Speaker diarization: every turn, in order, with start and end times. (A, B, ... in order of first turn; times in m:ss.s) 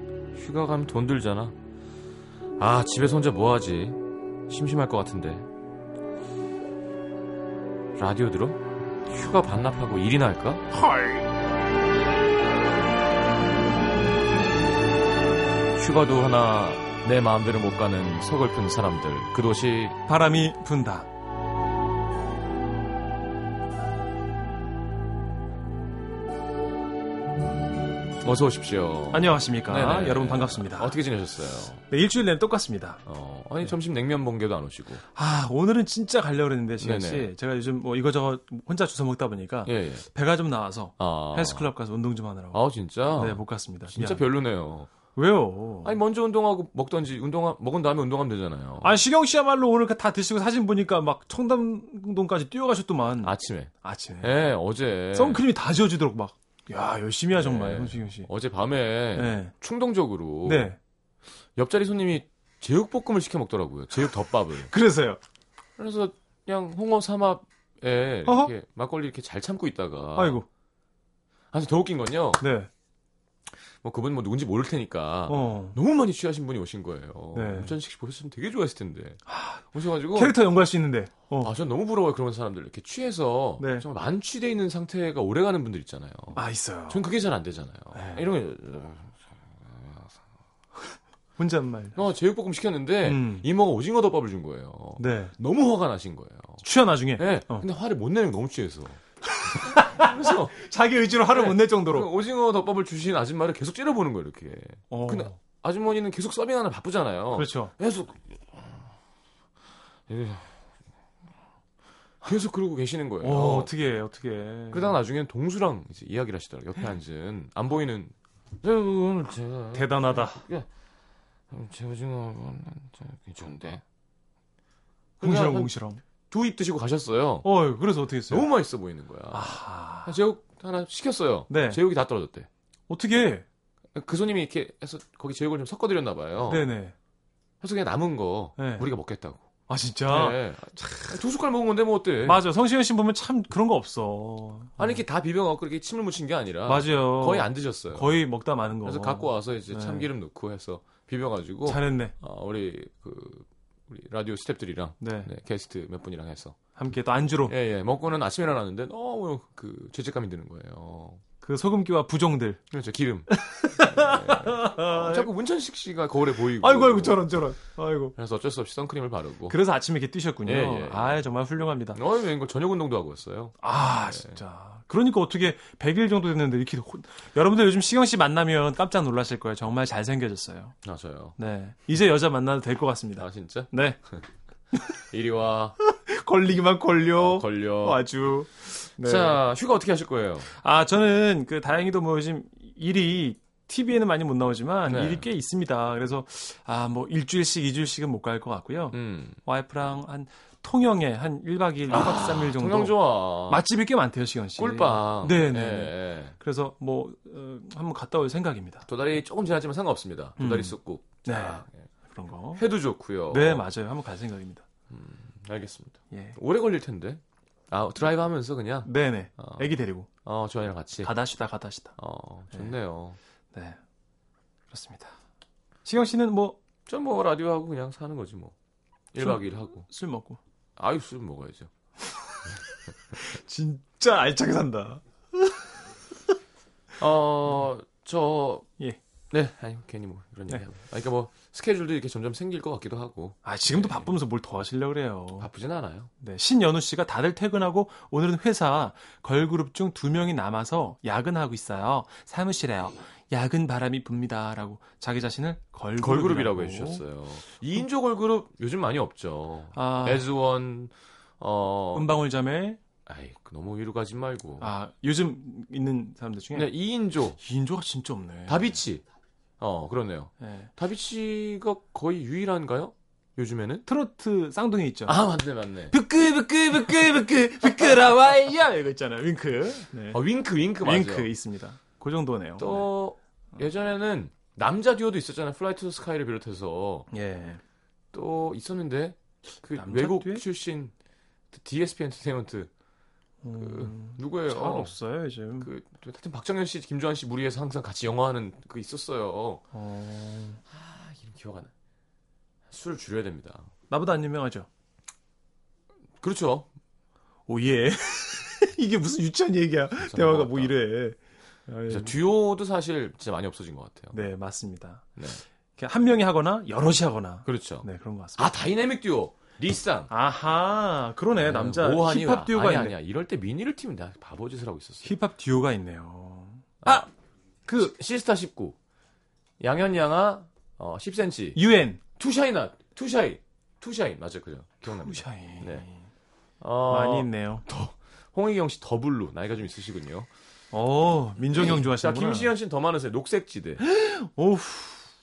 0:00.3-0:01.5 A
0:02.6-0:05.5 A
0:08.0-0:10.6 A
0:10.8-0:11.2 B
0:15.7-0:20.0 A
0:20.1-0:21.1 B
0:28.2-0:31.8 A
0:29.1-0:31.0 B
0:31.9-0:33.0 B
0:33.0-0:35.0 A
0:35.0-0:42.6 B
0:36.8-0:37.3 A
0:39.6-0:40.0 A
0:41.0-0:41.7 A
0:42.5-0:44.9 A
0:43.2-0:44.2 B
0:45.2-0:45.9 B
0:45.8-0:49.0 A
0:48.8-0:54.4 B
0:53.2-0:53.7 A
0:54.2-0:55.4 A
0:55.1-0:58.3 B
0:57.3-1:00.8 A
0:59.1-0:59.5 B
1:00.4-1:00.8 B
1:01.6-1:04.7 A
1:04.7-1:05.2 B
1:05.8-1:10.4 A
1:08.2-1:08.5 B
1:10.2-1:10.5 B
1:11.5-1:12.4 A
1:12.4-1:12.7 B
1:13.8-1:19.2 A
1:15.3-1:15.8 B
1:17.3-1:17.7 B
1:19.3-1:21.5 B
1:19.7-1:20.4 A
1:21.4-1:29.1 A
1:23.6-1:23.8 B
1:26.3-1:27.0 B
1:27.9-1:28.2 B
1:29.7-1:30.0 A
1:31.4-1:32.0 B
1:31.9-1:36.6 A
1:33.0-1:33.5 B
1:35.0-1:35.3 B
1:36.6-1:37.6 B
1:37.2-1:40.5 A
1:39.6-1:42.1 B
1:41.3-1:48.7 A
1:44.9-1:45.3 B
1:47.3-1:47.7 B
1:50.1-1:50.5 A
1:52.2-1:53.7 A
1:53.2-1:55.0 B
1:54.7-2:00.7 A
1:59.7-2:00.4 B
2:01.5-2:03.8 A
2:05.2-2:05.7 A
2:05.2-2:06.0 B
2:06.3-2:07.5 A
2:07.4-2:08.5 B
2:08.3-2:09.5 A
2:09.3-2:10.1 B
2:10.0-2:12.5 A
2:11.5-2:11.8 B
2:12.9-2:13.4 B
2:13.9-2:16.7 A
2:16.5-2:16.9 B
2:17.6-2:19.4 A
2:18.6-2:18.9 B
2:19.7-2:21.0 B
2:20.1-2:22.4 A
2:22.2-2:25.0 B
2:24.8-2:28.2 A
2:26.6-2:30.1 B
2:28.8-2:36.6 A
2:31.6-2:32.1 B
2:35.0-2:35.3 B
2:36.8-2:37.5 B
2:37.5-2:41.2 A
2:41.4-2:42.6 B
2:42.7-2:47.2 A
2:43.3-2:45.3 B
2:46.5-2:48.1 B
2:48.1-2:49.6 A
2:49.5-2:52.0 B
2:50.4-2:51.2 A
2:51.9-2:54.4 A
2:53.6-3:00.8 B
3:00.8-3:01.4 A
3:01.4-3:04.0 B
3:03.2-3:04.2 A
3:05.1-3:05.8 A
3:05.8-3:09.4 B
3:07.2-3:08.0 A
3:09.0-3:10.5 A
3:10.5-3:28.8 B
3:14.8-3:15.3 A
3:18.9-3:19.4 A
3:21.9-3:23.6 A
3:24.6-3:26.4 A
3:28.8-3:31.9 A
3:30.4-3:32.6 B
3:32.5-3:33.7 A
3:33.3-3:34.6 B
3:34.9-3:39.7 A
3:36.1-3:36.4 B
3:38.8-3:40.1 B
3:40.2-3:41.1 A
3:41.0-3:41.9 B
3:42.0-3:43.2 A
3:43.5-3:43.8 B
3:44.7-3:45.1 B
3:45.8-3:46.6 B
3:46.8-3:48.5 A
3:49.1-3:49.9 A
3:49.2-3:50.4 B
3:50.8-3:51.7 A
3:53.1-3:55.7 B
3:57.0-3:58.7 A
3:59.3-4:04.1 A
4:03.4-4:05.5 B
4:05.4-4:06.1 A
4:06.2-4:17.0 B
4:16.0-4:22.2 A
4:19.7-4:20.3 B
4:21.9-4:22.8 B
4:23.0-4:24.7 A
4:24.6-4:26.7 B
4:26.5-4:27.4 A
4:27.4-4:28.7 B
4:28.5-4:29.0 A
4:29.6-4:33.9 A
4:30.4-4:30.7 B
4:33.8-4:35.2 B
4:35.1-4:36.0 A
4:35.9-4:40.2 B
4:40.1-4:41.3 A
4:40.8-4:42.9 B
4:42.6-4:47.1 A
4:47.1-4:47.6 B
4:48.1-4:50.9 A
4:49.8-4:50.4 B
4:51.5-4:52.7 A
4:53.4-4:55.7 B
4:53.6-4:54.9 A
4:55.6-4:59.6 A
4:59.7-5:00.6 B
5:00.7-5:01.7 A
5:02.7-5:03.7 A
5:03.9-5:04.7 B
5:06.2-5:06.7 A
5:07.5-5:12.2 B
5:10.0-5:10.7 A
5:11.9-5:14.2 A
5:14.1-5:15.1 B
5:15.2-5:15.4 A
5:15.8-5:18.5 B
5:17.4-5:20.1 A
5:20.1-5:22.9 B
5:21.4-5:25.1 A
5:25.0-5:27.1 B
5:26.8-5:27.1 A
5:27.7-5:27.9 B
5:27.8-5:28.8 A
5:29.6-5:31.6 A
5:31.5-5:32.0 B
5:32.2-5:35.8 A
5:34.9-5:36.0 B
5:36.6-5:40.3 A
5:36.9-5:37.6 B
5:40.7-5:42.5 B
5:41.5-5:43.8 A
5:43.8-5:45.1 B